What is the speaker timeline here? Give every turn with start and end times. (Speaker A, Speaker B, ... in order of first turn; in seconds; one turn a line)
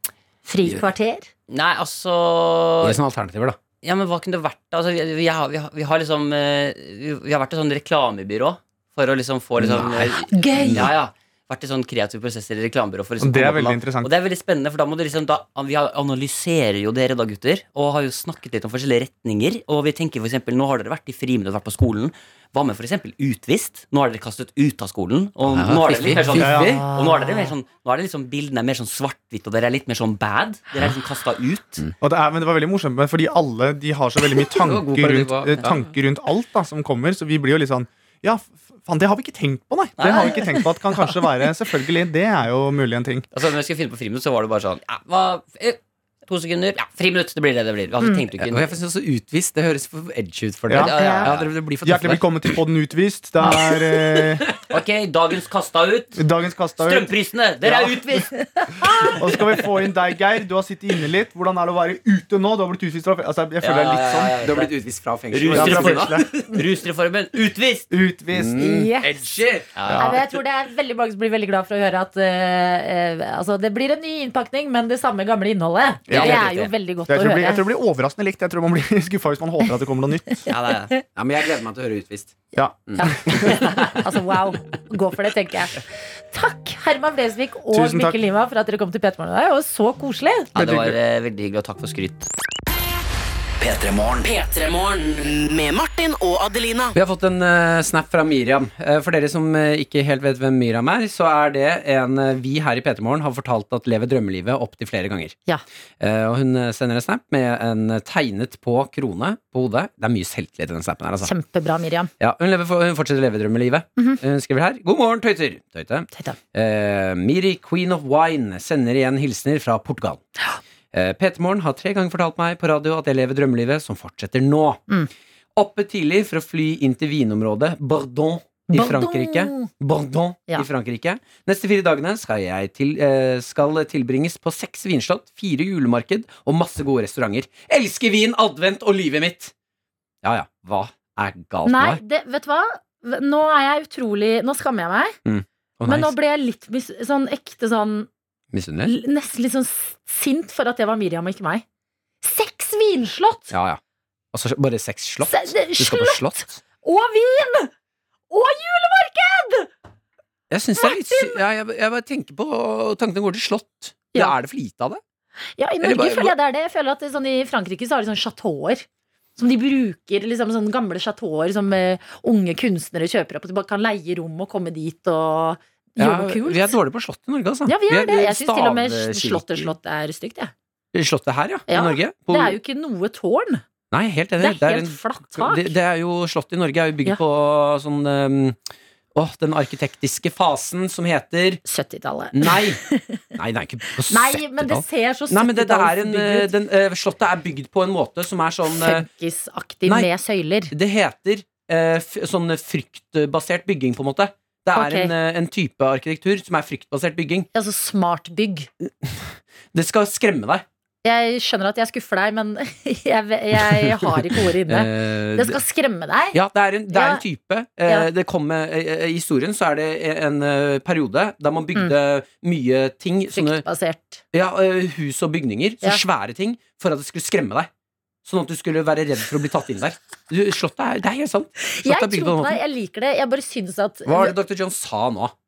Speaker A: 0.5-1.3
Speaker B: 1.5-3.0
Speaker C: 2.8-3.6
Speaker B: 3.8-31.9
Speaker C: 9.6-10.9
Speaker A: 10.3-10.9
Speaker D: 13.2-14.1
Speaker C: 25.5-26.9
Speaker D: 26.4-26.8
Speaker A: 26.5-27.5
Speaker D: 32.0-43.3
Speaker C: 34.6-35.9
Speaker B: 40.0-40.6
Speaker B: 43.3-48.7
Speaker C: 48.4-52.6
Speaker D: 50.7-54.5
Speaker B: 50.7-51.5
Speaker B: 54.7-56.2
Speaker D: 56.1-58.3
Speaker B: 56.8-58.3
Speaker A: 58.6-59.2
Speaker D: 58.8-64.4
Speaker B: 63.6-64.7
Speaker C: 63.9-66.3
Speaker B: 65.3-67.9
Speaker D: 65.5-66.3
Speaker D: 67.9-68.7
Speaker C: 68.3-69.7
Speaker A: 68.6-69.2
Speaker B: 69.8-70.2
Speaker D: 69.9-70.2
Speaker A: 70.0-77.7
Speaker D: 76.1-76.5
Speaker B: 76.1-76.7
Speaker D: 77.1-80.3
Speaker B: 80.5-80.9
Speaker C: 81.2-82.4
Speaker A: 83.0-90.5
Speaker B: 83.5-83.9
Speaker D: 87.7-88.2
Speaker B: 90.5-92.3
Speaker D: 90.6-91.0
Speaker E: 93.6-96.9
Speaker C: 96.9-105.4
Speaker C: 106.0-111.3
Speaker A: 111.2-112.1
Speaker C: 112.2-120.2
Speaker C: 120.9-124.8
Speaker C: 125.6-139.5
Speaker A: 128.7-129.7
Speaker C: 140.2-142.0
Speaker A: 141.7-145.2
Speaker C: 145.2-146.2
Speaker A: 145.9-148.1
Speaker C: 148.5-148.9
Speaker A: 148.8-151.6
Speaker A: 152.2-153.6
Speaker C: 153.5-153.8
Speaker C: 154.3-156.6
Speaker A: 155.3-157.7
Speaker A: 158.3-159.7
Speaker C: 160.5-165.0
Speaker A: 160.8-161.4
Speaker A: 165.6-168.9
Speaker C: 165.8-166.3
Speaker A: 169.4-176.8
Speaker C: 176.0-179.7
Speaker A: 177.7-180.5
Speaker C: 180.9-182.6
Speaker A: 181.7-183.6
Speaker C: 183.9-188.6
Speaker A: 184.4-185.8
Speaker C: 189.1-191.6
Speaker A: 191.7-193.3
Speaker C: 192.3-192.8
Speaker C: 193.3-199.1
Speaker A: 194.1-196.5
Speaker A: 198.7-200.7
Speaker C: 200.7-207.5
Speaker A: 204.8-205.1
Speaker A: 207.5-208.7
Speaker C: 209.0-210.7
Speaker A: 211.0-217.2
Speaker C: 213.6-214.1
Speaker C: 214.7-215.6
Speaker C: 216.3-223.7
Speaker A: 223.3-224.2
Speaker C: 224.3-227.7
Speaker C: 228.2-232.6
Speaker A: 231.6-234.4
Speaker C: 234.1-235.3